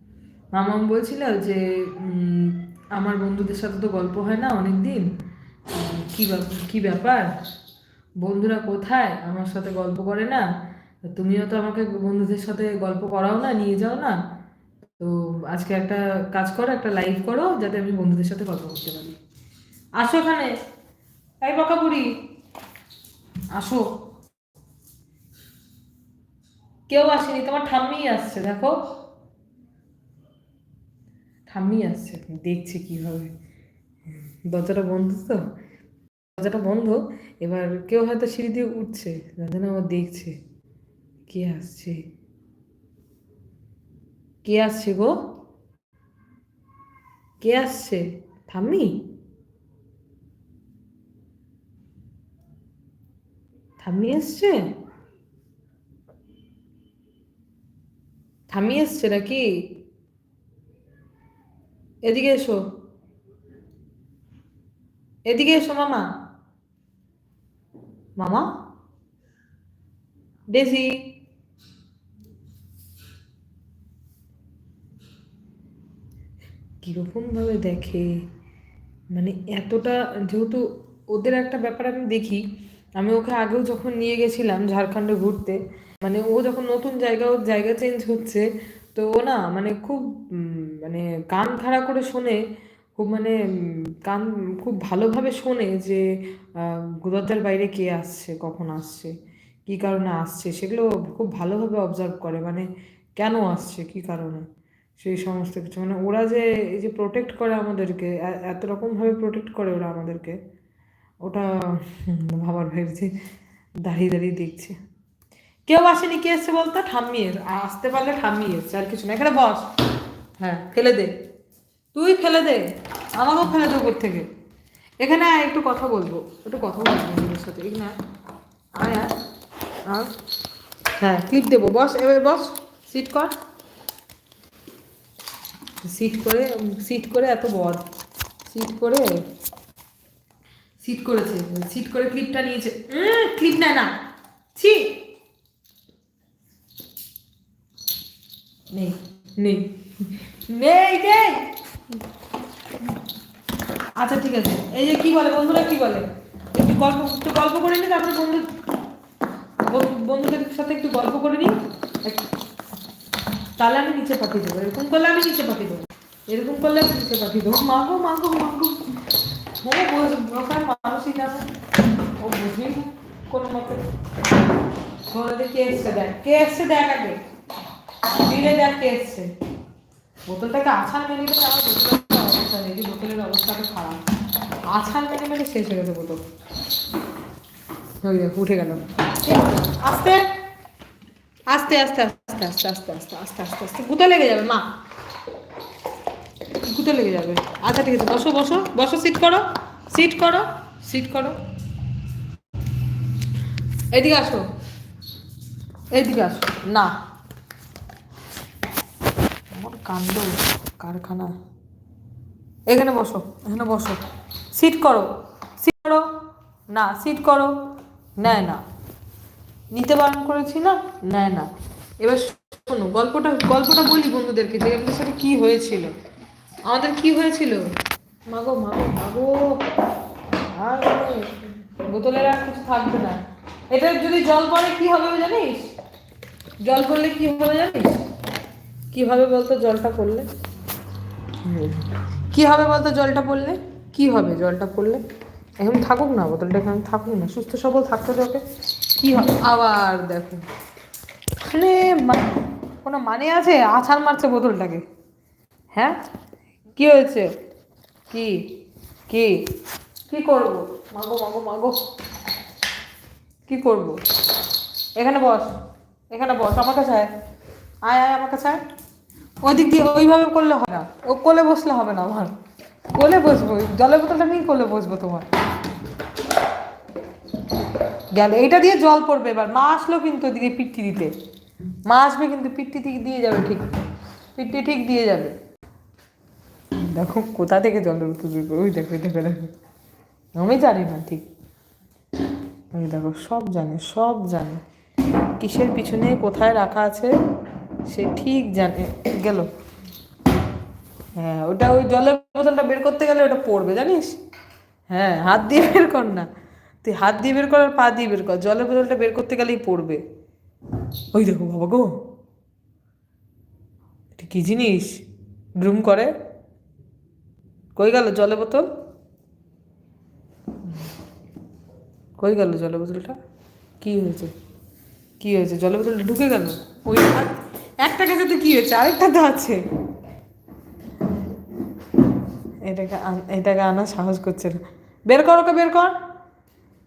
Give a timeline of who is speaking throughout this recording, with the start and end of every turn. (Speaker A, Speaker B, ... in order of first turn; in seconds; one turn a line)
Speaker A: 0.5-5.0
Speaker A: 5.7-7.3
Speaker A: 8.2-10.4
Speaker A: 11.1-14.2
Speaker A: 15.0-19.1
Speaker A: 20.0-20.5
Speaker A: 21.4-22.1
Speaker A: 23.5-23.9
Speaker A: 26.9-28.8
Speaker A: 31.5-33.3
Speaker A: 34.5-35.4
Speaker A: 36.4-40.4
Speaker A: 41.3-42.0
Speaker A: 44.4-45.1
Speaker A: 47.4-49.0
Speaker A: 53.8-54.5
Speaker A: 58.5-59.5
Speaker A: 62.1-62.6
Speaker A: 65.3-66.0
Speaker A: 68.2-68.4
Speaker A: 70.5-71.0
Speaker A: 76.8-78.1
Speaker A: 79.1-82.4
Speaker A: 83.0-92.4
Speaker A: 93.0-96.0
Speaker A: 96.6-99.1
Speaker A: 99.7-104.4
Speaker A: 105.0-110.4
Speaker A: 111.2-113.1
Speaker A: 113.8-114.7
Speaker A: 115.7-119.7
Speaker A: 120.4-121.1
Speaker A: 121.9-122.6
Speaker A: 123.2-124.3
Speaker A: 125.0-127.9
Speaker A: 128.8-129.1
Speaker A: 131.0-133.3
Speaker A: 135.8-137.8
Speaker A: 138.4-139.1
Speaker A: 140.8-143.9
Speaker A: 144.5-145.0
Speaker A: 148.7-151.5
Speaker A: 154.0-158.5
Speaker A: 159.7-162.2
Speaker A: 163.6-168.8
Speaker A: 169.6-171.5
Speaker A: 172.2-173.8
Speaker A: 175.1-177.2
Speaker A: 178.1-179.3
Speaker A: 180.3-184.0
Speaker A: 184.7-186.2
Speaker A: 188.0-190.2
Speaker A: 191.5-194.6
Speaker A: 196.6-201.3
Speaker A: 203.9-204.4
Speaker A: 205.9-206.9
Speaker A: 209.5-211.3
Speaker A: 212.7-214.0
Speaker A: 214.5-216.1
Speaker A: 216.7-217.5
Speaker A: 218.2-218.6
Speaker A: 219.7-221.5
Speaker A: 222.0-225.9
Speaker A: 226.7-227.7
Speaker A: 228.3-229.6
Speaker A: 230.5-231.3
Speaker A: 231.9-235.7
Speaker A: 236.6-238.0
Speaker A: 238.9-240.3
Speaker A: 241.4-245.0
Speaker A: 245.6-250.4
Speaker A: 251.4-254.8
Speaker A: 256.8-257.3
Speaker A: 258.1-258.4
Speaker A: 259.1-259.4
Speaker A: 260.1-261.8
Speaker A: 263.5-264.0
Speaker A: 264.9-265.5
Speaker A: 266.1-267.1
Speaker A: 267.8-268.6
Speaker A: 269.4-272.3
Speaker A: 272.9-275.3
Speaker A: 278.1-281.1
Speaker A: 281.9-283.7
Speaker A: 284.4-285.3
Speaker A: 286.8-289.5
Speaker A: 290.3-291.2
Speaker A: 292.7-294.6
Speaker A: 295.4-297.1
Speaker A: 297.9-299.5
Speaker A: 301.1-304.2
Speaker A: 304.9-306.3
Speaker A: 306.8-310.0
Speaker A: 311.1-311.9
Speaker A: 314.1-315.0
Speaker A: 315.6-316.1
Speaker A: 317.8-318.7
Speaker A: 322.2-323.1
Speaker A: 323.8-324.3
Speaker A: 325.2-329.6
Speaker A: 332.6-335.9